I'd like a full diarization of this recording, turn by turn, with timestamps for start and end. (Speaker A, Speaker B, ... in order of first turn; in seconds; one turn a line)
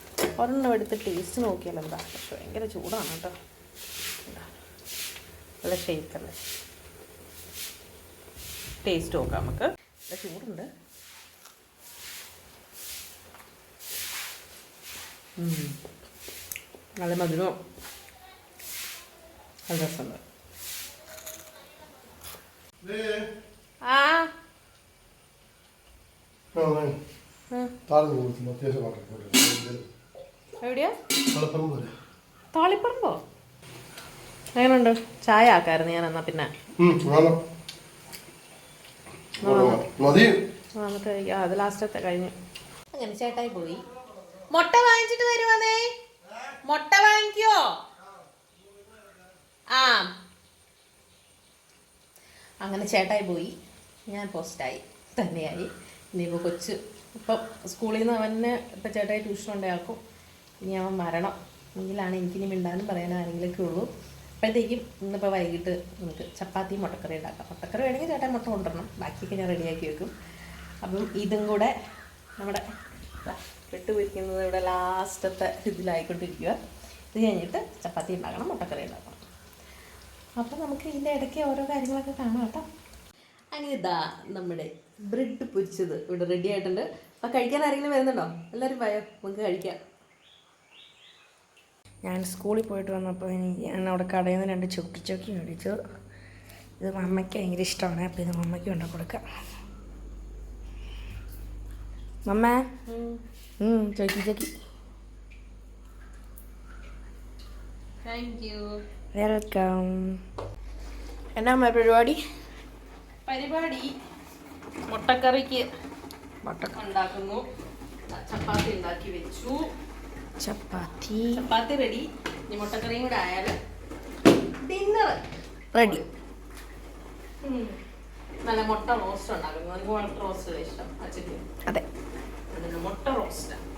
Speaker A: 0.4-3.3
Speaker A: 4.2-4.5
Speaker A: 5.6-6.3
Speaker A: 8.8-10.7
Speaker A: 15.4-15.8
Speaker A: 17.0-17.6
Speaker A: 19.7-20.2
Speaker B: 22.8-23.3
Speaker A: 23.8-24.3
Speaker B: 26.5-26.9
Speaker B: 27.9-29.8
Speaker A: 30.6-30.9
Speaker B: 31.3-31.9
Speaker A: 32.5-33.2
Speaker A: 34.6-36.5
Speaker B: 36.8-37.4
Speaker B: 39.4-40.3
Speaker A: 39.4-39.9
Speaker A: 40.8-42.3
Speaker A: 42.9-43.9
Speaker A: 44.5-45.9
Speaker A: 46.6-47.7
Speaker A: 49.7-50.1
Speaker A: 52.6-53.5
Speaker A: 54.1-60.0
Speaker A: 60.6-63.9
Speaker A: 64.4-70.1
Speaker A: 70.8-71.7
Speaker A: 72.4-72.6
Speaker A: 73.2-76.6
Speaker A: 77.1-79.2
Speaker A: 80.4-82.6
Speaker A: 83.5-89.8
Speaker C: 92.0-95.8
Speaker C: 96.8-99.2
Speaker C: 102.2-102.6
Speaker A: 102.9-103.2
Speaker C: 103.6-104.5
Speaker A: 108.0-108.8
Speaker C: 109.1-110.2
Speaker C: 111.3-112.2
Speaker A: 113.2-113.9
Speaker A: 114.9-115.7
Speaker C: 116.4-116.8
Speaker A: 116.8-117.4
Speaker A: 118.1-119.7
Speaker C: 120.4-121.5
Speaker A: 121.3-123.5
Speaker A: 124.6-125.2
Speaker C: 125.7-126.0
Speaker A: 125.8-126.0
Speaker A: 128.4-131.4
Speaker A: 132.5-133.6